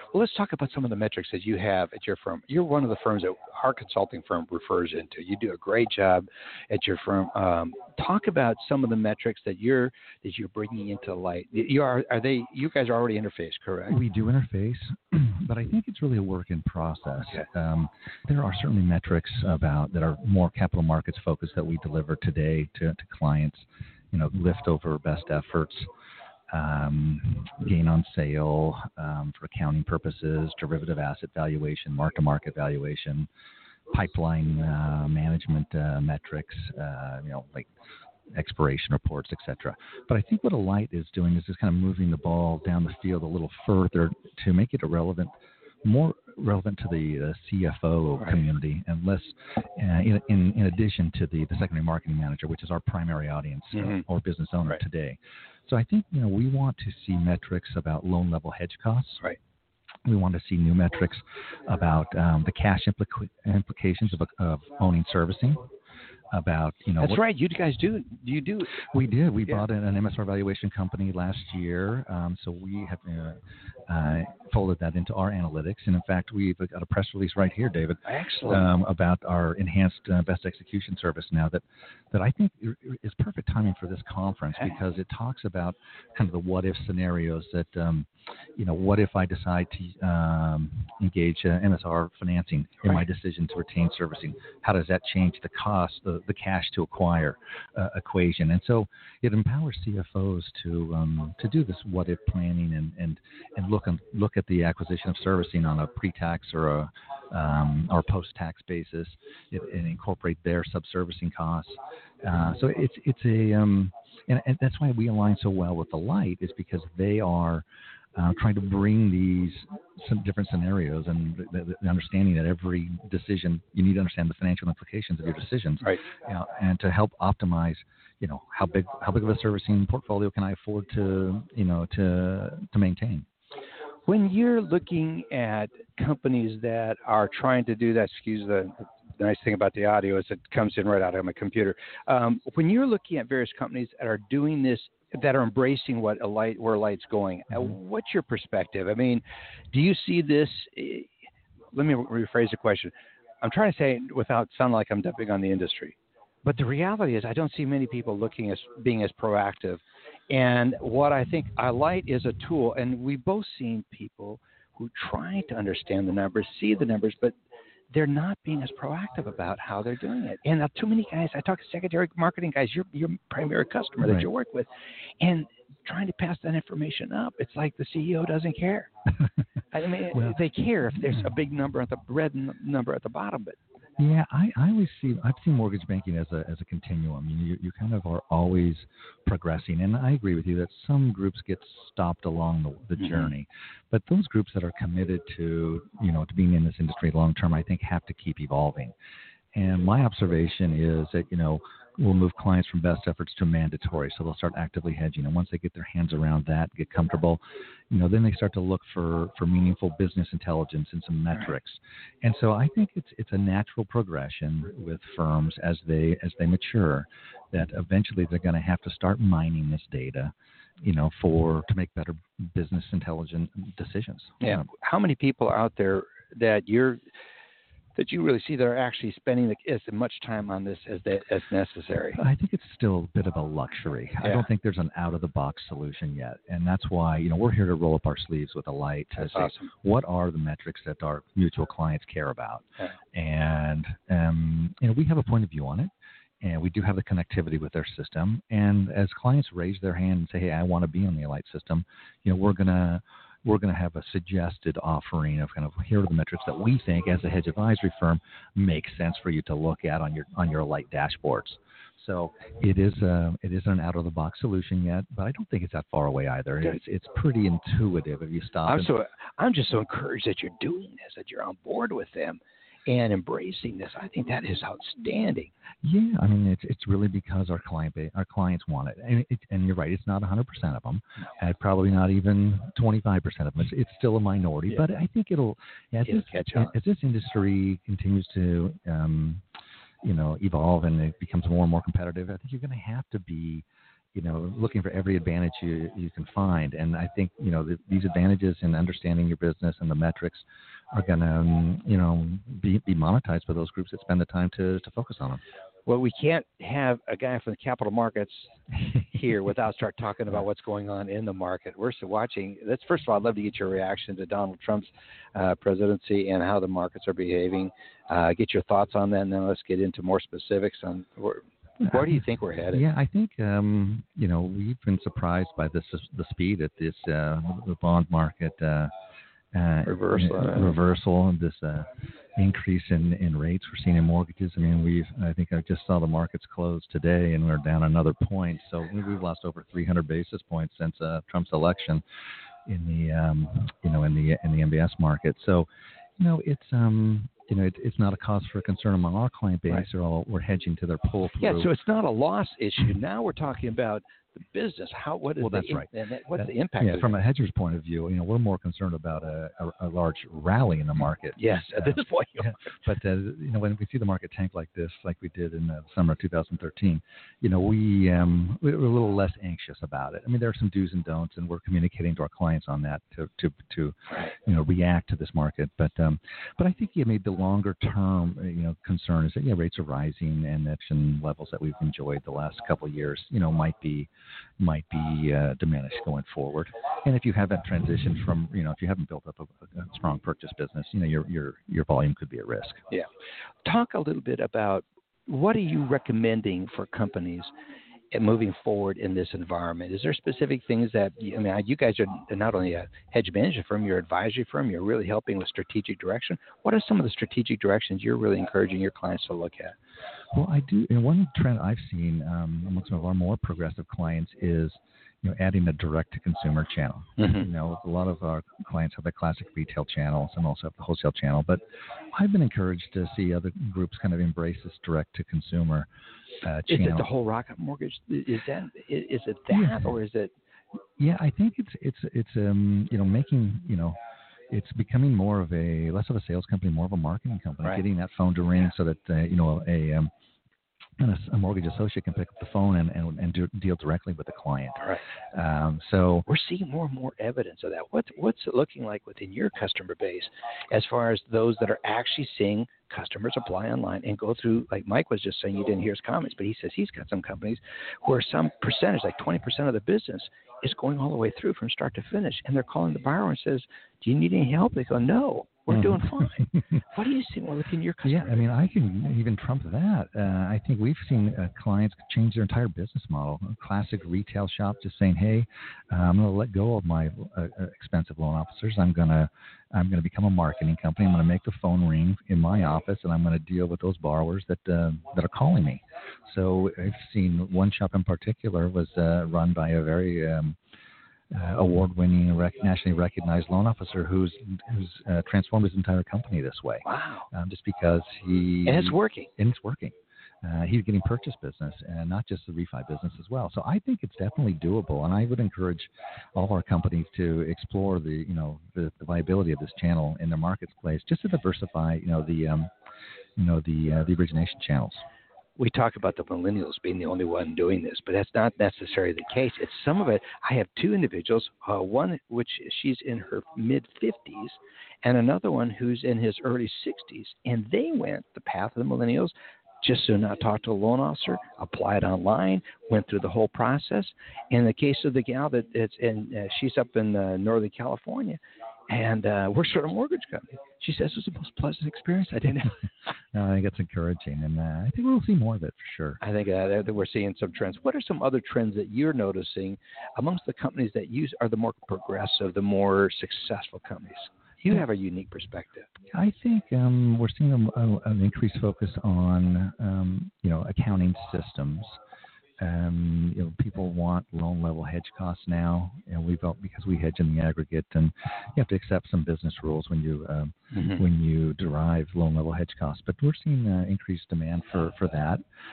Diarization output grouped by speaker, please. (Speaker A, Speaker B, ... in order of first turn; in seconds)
Speaker A: 0.1-14.0, 53.7-54.0, 67.0-68.8, 78.0-78.7, 134.1-151.1, 151.7-167.3, 167.9-174.7, 175.2-178.9, 179.7-183.6, 193.0-193.3, 224.4-227.0, 227.9-232.2, 239.2-239.7, 268.6-275.5, 286.1-286.7, 305.9-322.8, 329.9-330.8, 351.4-357.2, 361.4-362.6, 393.6-397.5, 398.1-409.7, 417.2-417.4, 426.7-430.3, 446.3-468.4, 496.8-497.3, 498.6-499.3, 515.6-542.8, 546.2-555.9, 570.7-571.0
Speaker B: 13.9-25.9, 26.5-33.3, 33.9-37.7, 38.3-45.3, 45.8-59.2, 60.0-65.6, 66.3-67.2, 68.8-117.6, 118.2-133.2, 174.0-174.3, 180.1-180.4, 184.0-198.9, 199.5-207.4, 207.9-220.3, 220.8-224.6, 232.1-245.9, 246.4-268.9, 275.8-289.4, 290.0-305.4, 321.8-328.9, 329.5-342.0, 342.6-351.7, 355.4-384.1, 384.6-392.8, 410.3-425.9, 426.4-427.1, 429.5-429.9, 431.0-434.0, 434.5-440.1, 441.0-446.3, 465.7-466.6, 468.0-490.6, 491.3-512.7, 513.4-515.0, 543.3-546.2, 556.1-562.0, 562.6-575.4